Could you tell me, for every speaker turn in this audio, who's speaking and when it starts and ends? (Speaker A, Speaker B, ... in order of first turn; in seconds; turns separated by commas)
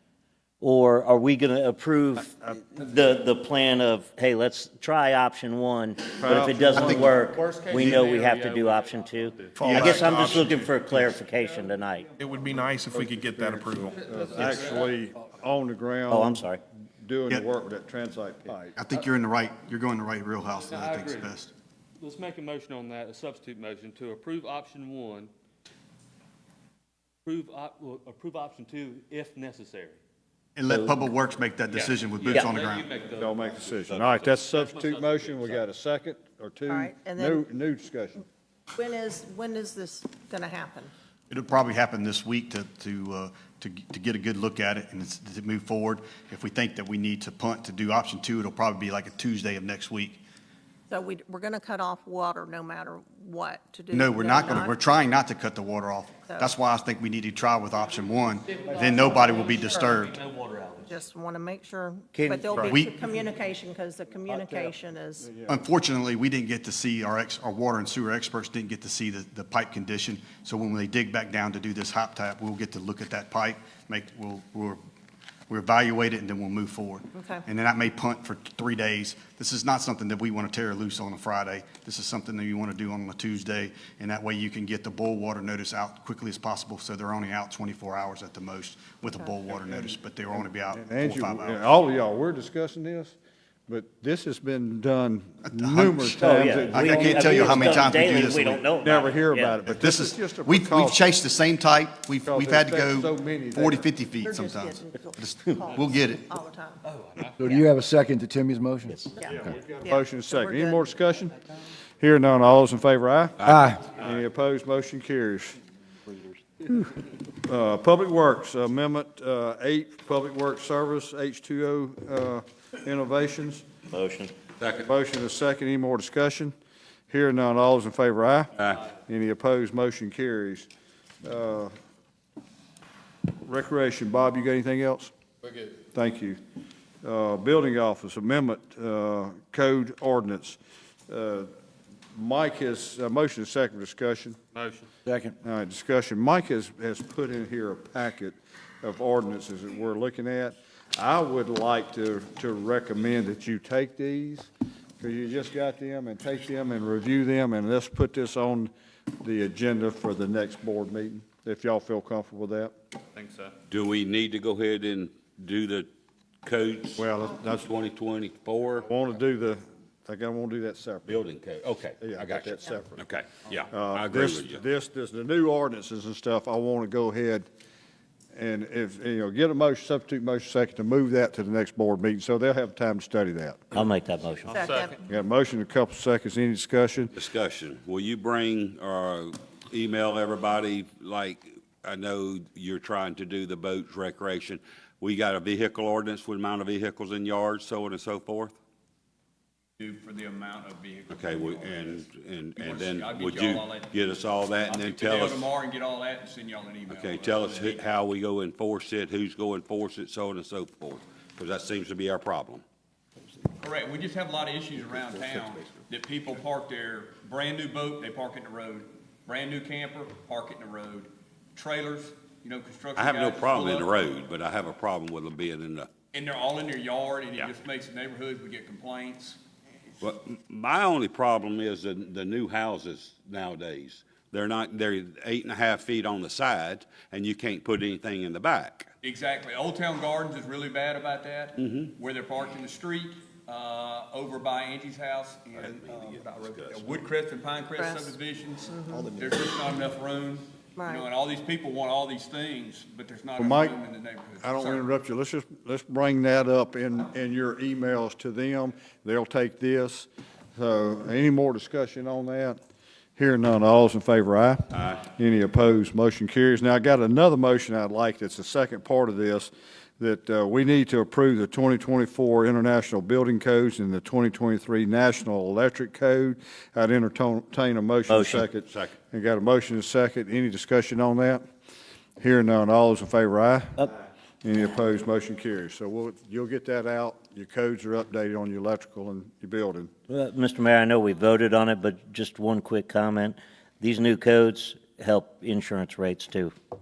Speaker A: 0.6-12.1, Speaker B: 6.2-7.1, Speaker C: 6.8-7.1, Speaker D: 6.9-9.6, Speaker C: 7.7-8.1, Speaker E: 9.6-10.7, Speaker C: 9.6-10.5, Speaker E: 12.2-13.9, Speaker B: 12.4-16.4, Speaker D: 14.1-14.8, Speaker A: 16.1-16.6, Speaker B: 17.0-18.8, Speaker C: 18.8-21.5, Speaker D: 20.6-21.4, Speaker D: 22.0-25.3, Speaker D: 27.3-30.0, Speaker C: 30.6-32.9, Speaker B: 30.7-31.0, Speaker D: 31.7-35.6, Speaker B: 33.1-38.2, Speaker F: 36.7-37.4, Speaker F: 38.7-40.9, Speaker C: 41.3-50.2, Speaker F: 50.9-54.8, Speaker C: 53.9-60.2, Speaker F: 56.3-56.5, Speaker D: 58.5-61.0, Speaker B: 58.7-59.0, Speaker F: 60.9-65.4, Speaker A: 62.1-62.7, Speaker C: 62.6-63.0, Speaker B: 64.3-65.7, Speaker C: 65.5-74.8, Speaker C: 75.5-91.7, Speaker F: 77.1-77.5, Speaker B: 89.6-93.2, Speaker B: 93.7-101.2, Speaker C: 95.5-98.6, Speaker A: 96.2-99.6, Speaker C: 99.7-106.3, Speaker B: 102.2-103.9, Speaker F: 104.2-106.8, Speaker D: 106.9-107.3, Speaker G: 107.4-109.0, Speaker A: 108.9-109.1, Speaker F: 109.1-110.9, Speaker B: 109.3-115.6, Speaker H: 113.4-113.7, Speaker G: 113.5-113.8, Speaker B: 117.4-123.6, Speaker A: 123.9-124.3, Speaker H: 124.6-124.9, Speaker B: 124.8-126.5, Speaker B: 127.1-130.7, Speaker B: 131.2-131.7, Speaker B: 133.4-135.1, Speaker B: 135.9-136.4, Speaker B: 137.0-141.5, Speaker B: 142.1-144.4, Speaker D: 144.6-144.9, Speaker G: 145.1-145.3, Speaker B: 145.4-154.5, Speaker B: 155.0-162.8, Speaker D: 163.2-163.6, Speaker H: 163.7-165.9, Speaker H: 166.4-168.9, Speaker B: 167.0-167.7, Speaker B: 168.8-171.2, Speaker H: 171.1-174.6, Speaker B: 172.0-173.1, Speaker B: 173.7-177.5, Speaker B: 178.3-183.6, Speaker A: 183.7-184.7, Speaker F: 184.5-185.0, Speaker D: 184.6-184.9, Speaker B: 185.1-187.2, Speaker H: 187.1-198.6, Speaker I: 199.8-204.1, Speaker H: 201.1-205.5, Speaker I: 204.7-207.8, Speaker H: 206.9-212.6, Speaker I: 213.6-224.1, Speaker H: 223.0-225.9, Speaker I: 226.1-229.4, Speaker H: 230.0-238.9, Speaker I: 239.0-254.8, Speaker H: 241.6-241.9, Speaker H: 245.6-247.0, Speaker F: 247.8-248.1, Speaker F: 248.7-249.1, Speaker G: 248.9-249.4, Speaker F: 250.8-251.1, Speaker B: 253.4-253.8, Speaker B: 254.4-262.6, Speaker B: 263.2-281.4, Speaker H: 264.7-265.1, Speaker A: 278.1-278.4, Speaker H: 278.7-279.0, Speaker B: 282.2-283.9, Speaker B: 284.4-289.9, Speaker A: 290.1-296.5